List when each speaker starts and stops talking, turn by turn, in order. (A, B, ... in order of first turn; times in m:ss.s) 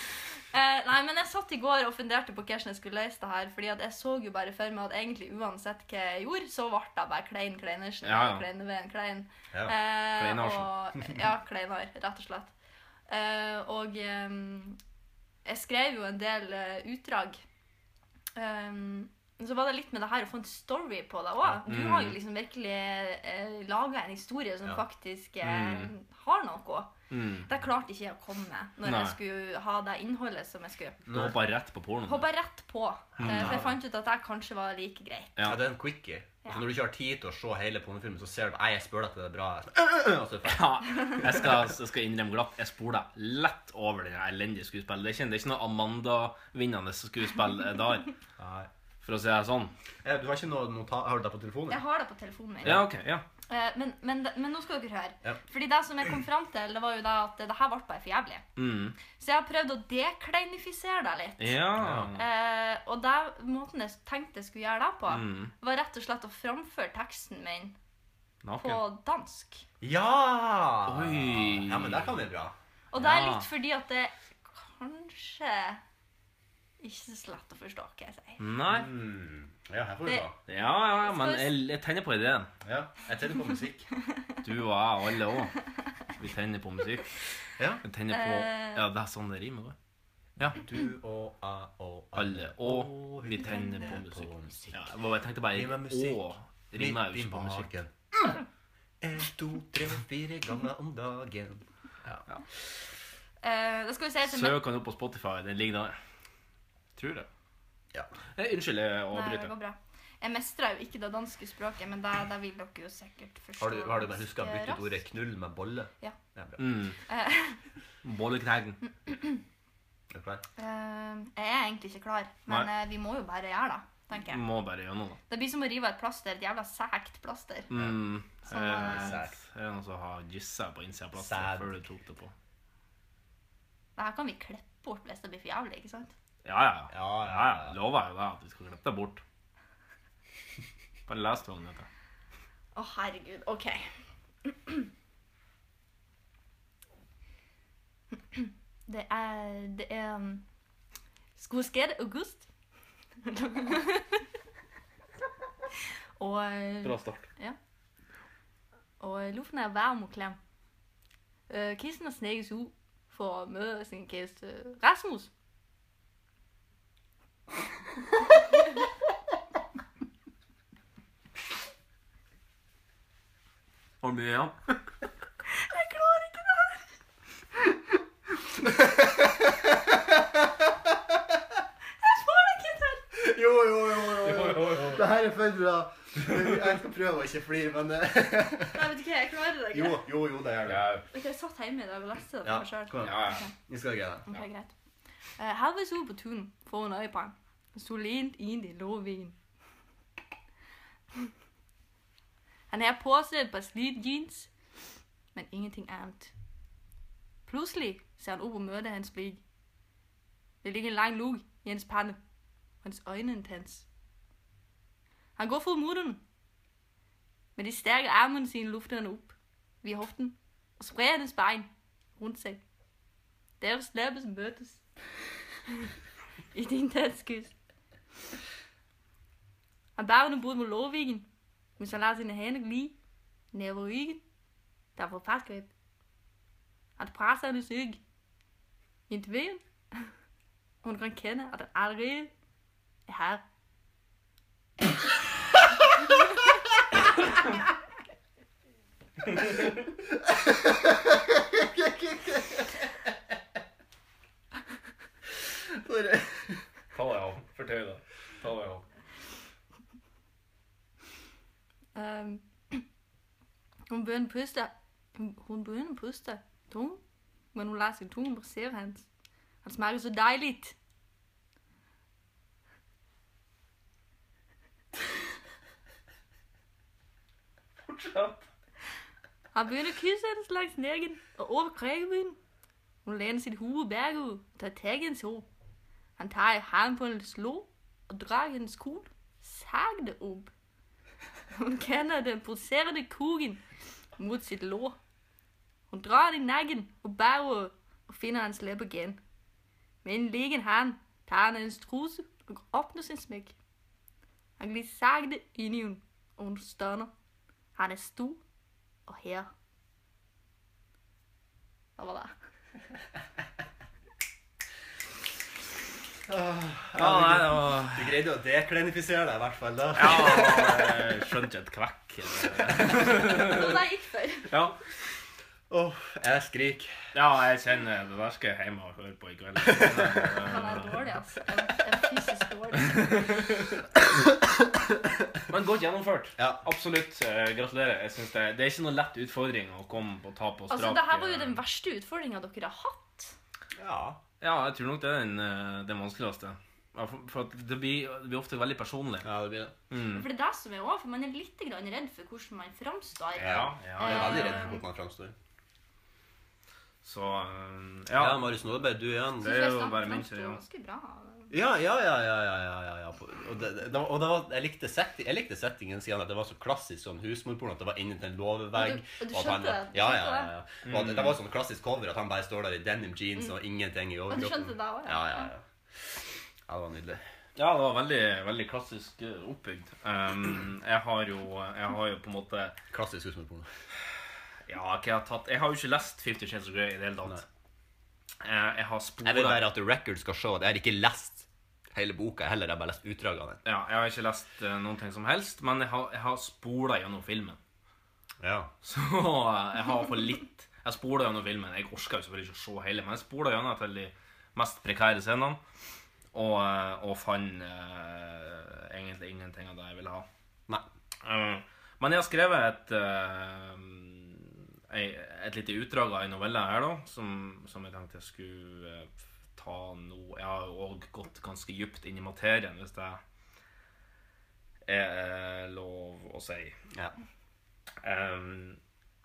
0:00.5-0:12.5 A
0:08.0-0:08.4 B
0:10.2-0:10.7 B
0:13.1-0:14.8 A
0:15.4-0:17.4 A
0:18.4-0:26.9 A
0:21.5-0:22.2 B
0:25.4-0:25.9 B
0:27.1-0:27.5 B
0:27.5-0:31.0 A
0:28.8-0:29.2 B
0:31.1-0:31.3 C
0:31.1-0:32.3 B
0:32.1-0:35.4 A
0:33.2-0:33.6 B
0:33.2-0:33.7 C
0:35.4-0:35.6 B
0:35.4-0:41.5 C
0:40.5-0:48.1 B
0:48.4-0:48.7 C
0:49.0-0:49.7 B
0:50.0-0:51.8 C
0:51.7-0:52.8 A
0:52.6-0:53.2 B
0:53.5-0:58.4 A
0:58.6-0:59.0 B
0:59.1-1:01.6 A
1:01.4-1:02.2 B
1:01.8-1:02.1 C
1:02.2-1:07.8 A
1:05.1-1:05.5 B
1:08.4-1:08.8 B
1:08.6-1:09.6 A
1:09.8-1:12.6 C
1:10.9-1:12.1 B
1:12.9-1:15.8 A
1:12.9-1:13.5 B
1:16.8-1:18.4 A
1:18.4-1:18.9 B
1:18.7-1:20.4 C
1:20.5-1:22.5 B
1:21.0-1:21.5 A
1:22.6-1:23.9 C
1:24.4-1:25.6 B
1:26.2-1:27.2 B
1:27.6-1:27.8 C
1:27.8-1:29.8 B
1:28.1-1:28.8 A
1:30.4-1:34.9 C
1:32.2-1:37.7 B
1:35.5-1:38.4 C
1:39.0-1:42.2 C
1:43.4-1:44.6 A
1:44.2-1:46.0 B
1:47.0-1:47.3 B
1:48.4-1:49.5 B
1:49.1-1:55.0 A
1:53.6-1:56.6 C
1:56.6-1:57.0 B
1:57.1-1:57.6 A
1:58.0-1:58.8 B
1:59.1-1:59.4 A
2:00.1-2:00.4 C
2:00.6-2:04.4 A
2:04.3-2:05.2 B
2:05.3-2:07.7 A
2:07.7-2:12.3 B
2:08.5-2:09.2 A
2:08.7-2:09.4 C
2:11.2-2:11.7 C
2:14.0-2:16.1 A
2:16.4-2:19.2 B
2:16.9-2:17.8 C
2:21.1-2:21.9 B
2:22.8-2:23.9 A
2:24.4-2:24.9 A
2:28.3-2:30.4 A
2:31.4-2:32.5 A
2:33.2-2:34.2 A
2:36.2-2:37.6 A
2:36.8-2:37.3 B
2:39.0-2:40.4 A
2:41.5-2:45.3 A
2:54.0-2:54.8 B
2:55.5-2:56.8 A
2:58.8-2:59.2 C
3:02.0-3:03.0 A
3:03.1-3:08.9 C
3:04.2-3:05.0 B
3:08.7-3:10.1 A
3:09.7-3:10.9 C
3:10.7-3:11.0 B
3:11.1-3:13.5 A
3:12.4-3:14.3 C
3:13.0-3:13.4 B
3:14.3-3:14.7 A
3:15.4-3:19.4 A
3:22.7-3:24.5 A
3:25.3-3:26.3 A
3:27.5-3:29.4 A
3:30.6-3:32.2 A
3:32.8-3:33.9 A
3:35.4-3:36.2 A
3:37.6-3:42.6 A
3:43.6-3:44.8 A
3:46.5-3:47.5 A
3:50.0-3:53.0 A
3:53.5-3:54.2 A
3:55.0-3:55.7 A
3:57.0-3:58.0 A
3:59.1-4:00.1 A
4:00.8-4:02.3 A
4:03.1-4:03.4 A
4:10.7-4:12.7 C
4:15.7-4:16.6 C
4:16.9-4:18.8 B
4:22.0-4:22.8 A
4:23.9-4:27.0 A
4:27.5-4:29.1 A
4:29.6-4:30.8 A
4:37.8-4:38.4 B
4:39.5-4:42.4 A
4:43.0-4:45.5 A
4:46.2-4:50.5 A
4:51.5-4:53.6 A
4:54.2-4:55.0 A
4:55.9-4:59.2 A
5:00.0-5:03.6 A
5:04.6-5:07.1 A
5:07.8-5:08.4 A
5:09.1-5:09.5 A
5:12.0-5:12.3 A
5:16.3-5:21.0 C
5:17.0-5:18.2 B
5:20.0-5:23.8 B
5:23.2-5:24.5 A
5:24.5-5:24.8 B
5:25.7-5:27.0 C
5:27.1-5:31.0 B
5:30.4-5:33.2 A
5:32.9-5:33.6 B
5:35.5-5:41.6 B
5:36.4-5:36.6 C
5:40.7-5:43.3 A
5:43.8-5:44.2 C
5:44.4-5:49.3 B
5:49.2-5:49.8 C
5:49.9-5:50.3 B
5:50.1-5:54.8 A
5:53.4-5:55.4 C
5:53.4-5:54.7 B
5:57.0-5:58.6 B
5:58.1-5:59.5 C
5:59.4-6:00.6 B
5:59.4-6:01.5 A
6:01.5-6:15.6 C
6:08.7-6:10.5 A
6:10.8-6:11.4 B
6:14.3-6:15.5 A
6:16.7-6:17.2 C
6:17.6-6:22.8 B
6:22.9-6:23.7 C
6:24.7-6:27.4 B
6:28.4-6:29.6 B
6:29.2-6:33.6 C
6:33.6-6:37.6 B
6:38.4-6:38.7 C
6:38.8-6:45.6 B
6:46.3-6:50.3 B
6:51.2-7:03.2 B
7:04.9-7:06.8 B
7:08.0-7:08.8 B